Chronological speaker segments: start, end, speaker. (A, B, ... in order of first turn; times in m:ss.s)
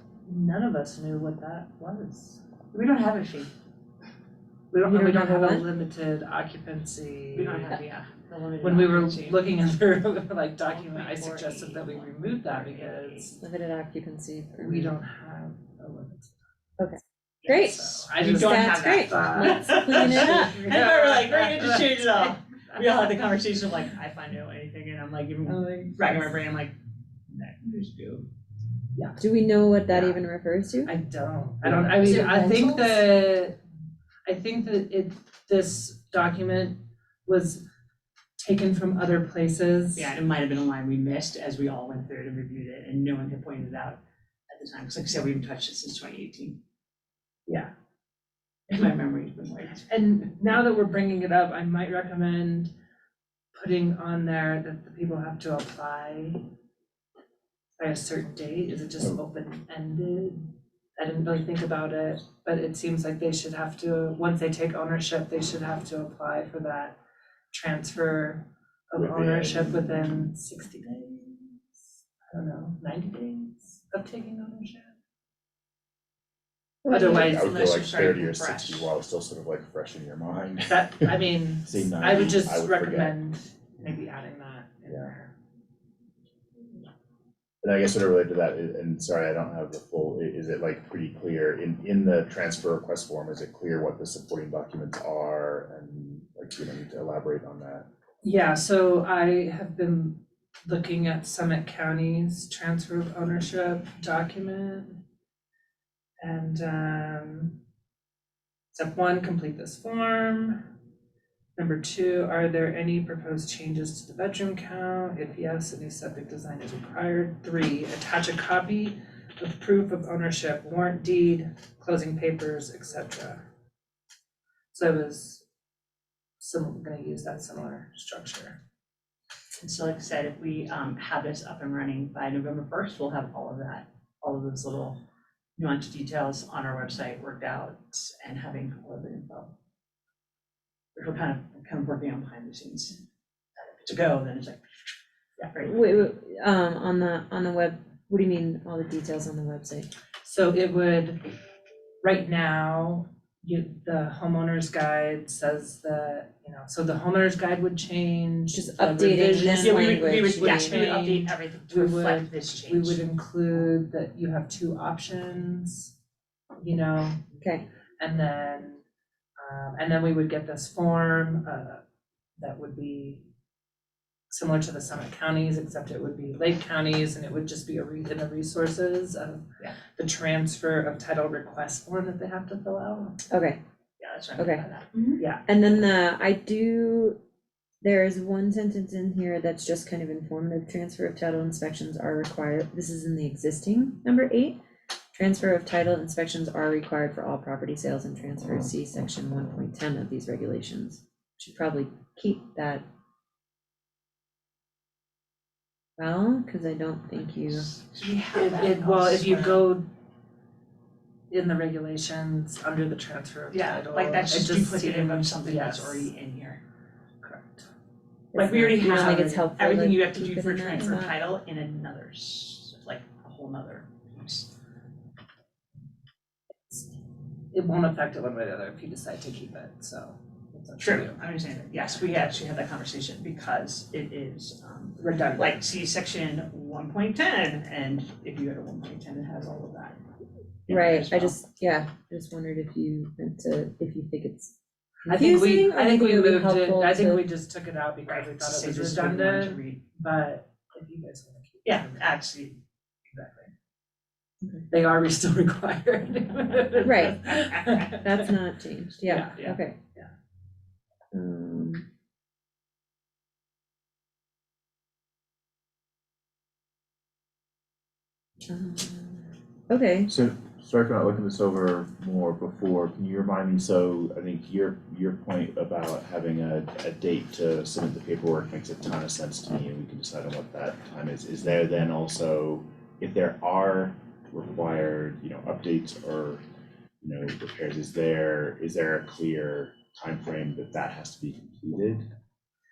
0:00.2-0:02.4 A
0:02.7-0:03.5 B
0:04.7-0:07.9 A
0:04.8-0:05.6 C
0:07.4-0:09.5 B
0:08.6-0:13.4 A
0:10.7-0:13.4 B
0:13.4-0:15.0 C
0:14.6-0:16.4 A
0:16.8-0:20.6 C
0:17.5-0:23.2 A
0:18.1-0:26.8 B
0:25.4-0:26.2 C
0:27.3-0:28.3 B
0:29.2-0:30.9 C
0:30.8-0:33.6 A
0:31.7-0:32.3 B
0:32.0-0:33.0 C
0:34.2-0:37.6 A
0:38.4-0:40.1 A
0:39.9-0:46.6 B
0:48.7-0:49.9 B
0:49.9-0:52.7 A
0:53.5-0:56.4 A
0:57.8-1:07.0 A
1:07.5-1:11.6 A
1:08.9-1:10.1 D
1:12.3-1:15.0 A
1:16.8-1:17.6 A
1:16.8-1:17.2 C
1:16.9-1:18.9 B
1:17.2-1:23.2 D
1:20.7-1:25.3 A
1:27.6-1:37.8 D
1:38.2-1:45.0 A
1:46.2-1:47.6 A
1:48.7-1:50.6 A
1:51.6-2:03.4 A
2:04.7-2:05.4 A
2:06.4-2:08.6 A
2:09.6-2:15.0 B
2:15.6-2:19.5 B
2:20.9-2:23.0 B
2:23.8-2:24.6 B
2:25.5-2:25.9 B
2:25.6-2:29.9 C
2:30.2-2:31.2 A
2:32.0-2:45.9 A
2:38.5-2:40.8 C
2:39.3-2:43.0 B
2:46.6-2:47.2 A
2:48.0-2:48.8 A
2:49.4-2:51.8 A
2:52.4-2:53.2 A
2:54.3-2:59.4 A
3:00.0-3:03.2 A
3:03.3-3:03.6 C
3:04.0-3:05.2 B
3:04.4-3:04.6 C
3:05.2-3:05.5 A
3:05.4-3:07.2 C
3:07.8-3:14.6 C
3:15.1-3:22.8 C
3:26.0-3:27.7 C
3:27.5-3:29.7 B
3:28.3-3:29.8 A
3:31.3-3:36.1 A
3:33.5-3:36.6 B
3:37.2-3:37.7 A
3:38.3-3:41.2 C
3:38.3-3:44.5 B
3:47.5-3:51.2 A
3:50.8-4:00.0 B
3:51.7-3:52.0 A
3:55.0-3:55.6 A
4:00.7-4:01.4 B
4:00.7-4:07.2 C
4:05.1-4:12.1 A
4:08.1-4:09.8 B
4:11.6-4:12.6 B
4:13.0-4:13.5 A
4:14.7-4:18.0 A
4:16.8-4:17.3 C
4:17.4-4:17.9 B
4:17.9-4:19.8 C
4:19.0-4:19.4 A
4:21.1-4:21.8 C
4:28.4-4:30.1 C
4:30.1-4:46.4 D
4:47.0-4:52.0 D